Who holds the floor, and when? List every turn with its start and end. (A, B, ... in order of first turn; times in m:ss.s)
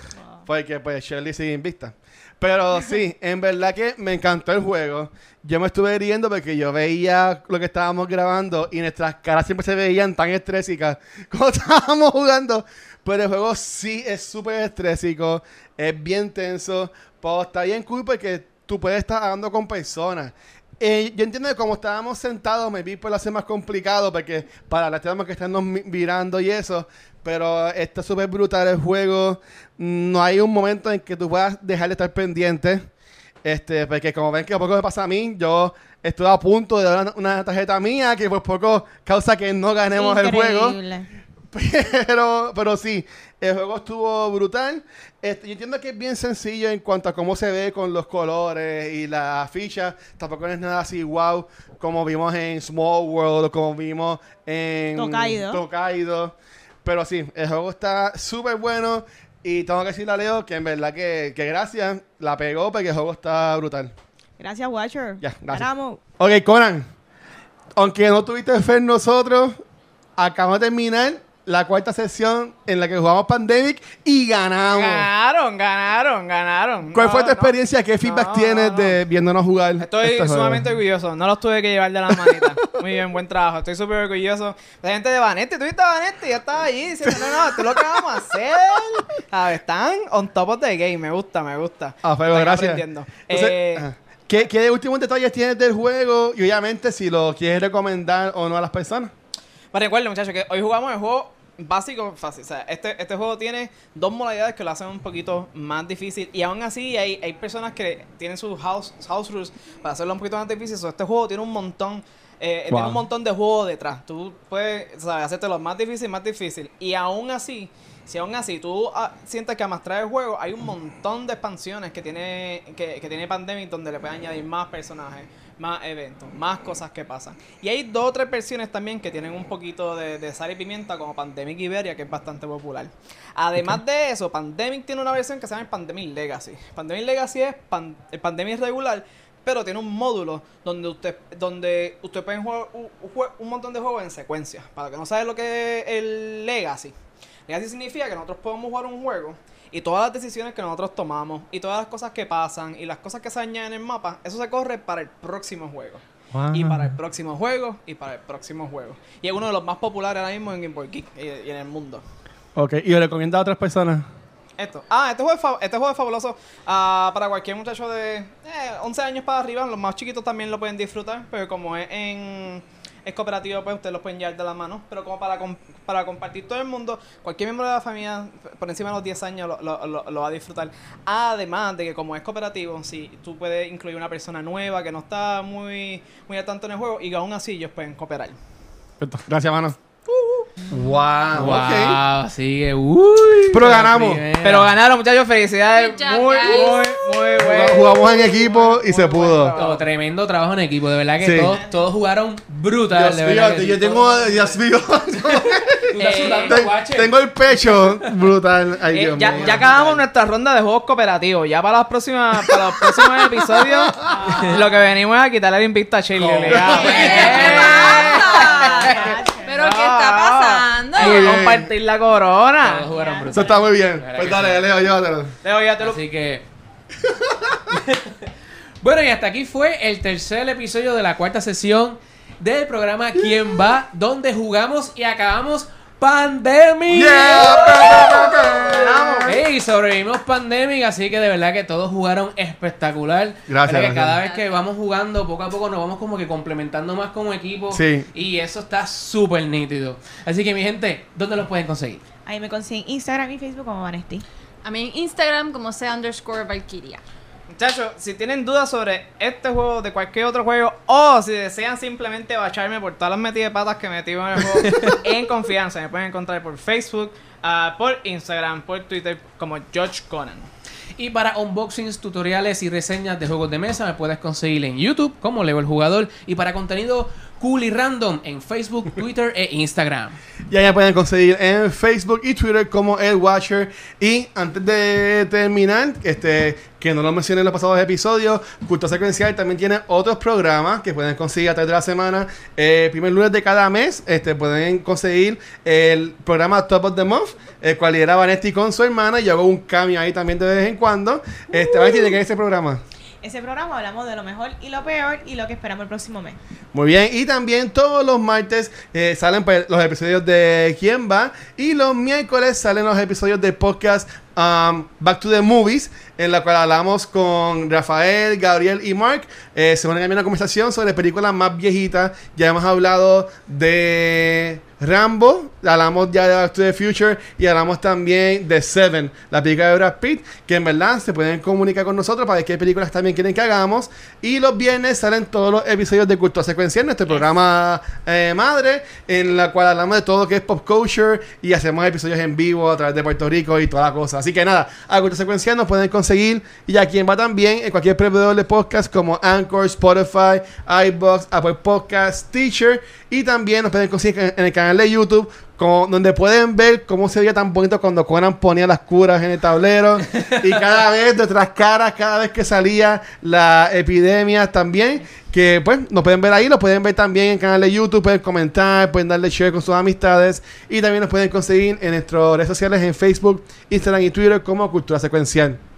0:00.2-0:00.4 A
0:00.5-0:32.8 B
0:33.4-0:40.8 B
0:40.0-0:41.1 A
0:41.5-1:03.9 B
0:55.0-0:55.6 A
1:04.4-1:06.0 A
1:05.2-1:06.9 B
1:07.8-1:09.6 B
1:10.2-1:15.1 B
1:14.7-1:19.0 C
1:16.9-1:20.7 B
1:19.8-1:33.9 C
1:32.0-1:39.1 B
1:39.7-2:26.9 C
1:52.7-1:53.0 B
2:27.5-2:42.0 C
2:36.3-2:36.9 B
2:42.6-2:44.1 B
2:44.6-3:08.4 C
3:09.0-3:09.8 B
3:10.1-3:10.4 C
3:10.7-3:12.0 B
3:11.3-3:14.8 D
3:13.5-3:14.2 B
3:14.4-3:19.8 C
3:15.7-3:17.4 E
3:17.4-3:19.6 B
3:19.6-3:24.6 D
3:21.2-3:21.6 B
3:21.5-3:21.8 A
3:22.9-3:29.7 B
3:25.3-3:28.1 D
3:25.9-3:26.6 C
3:28.9-3:42.9 C
3:29.1-3:30.0 D
3:33.4-3:34.1 B
3:34.1-3:34.6 A
3:36.2-3:37.4 B
3:36.4-3:38.2 D
3:36.7-3:41.4 E
3:37.7-3:39.5 A
3:41.0-3:41.7 B
3:42.6-3:44.7 D
3:42.8-3:43.6 A
3:43.3-3:45.3 B
3:45.4-3:46.0 C
3:45.8-3:46.5 D
3:47.0-3:47.6 B
3:47.7-3:48.3 D
3:48.8-3:58.6 D
3:56.9-3:59.4 B
3:57.4-3:59.4 C
3:59.3-4:12.0 D
4:03.5-4:04.2 B
4:04.2-4:04.6 E
4:07.7-4:08.1 B
4:12.3-4:14.2 A
4:14.6-4:17.0 E
4:17.5-4:30.5 C
4:31.0-4:40.2 D
4:40.5-5:02.8 B
5:01.7-5:02.0 A
5:03.2-5:06.4 A
5:06.7-6:15.6 B
6:00.2-6:00.4 D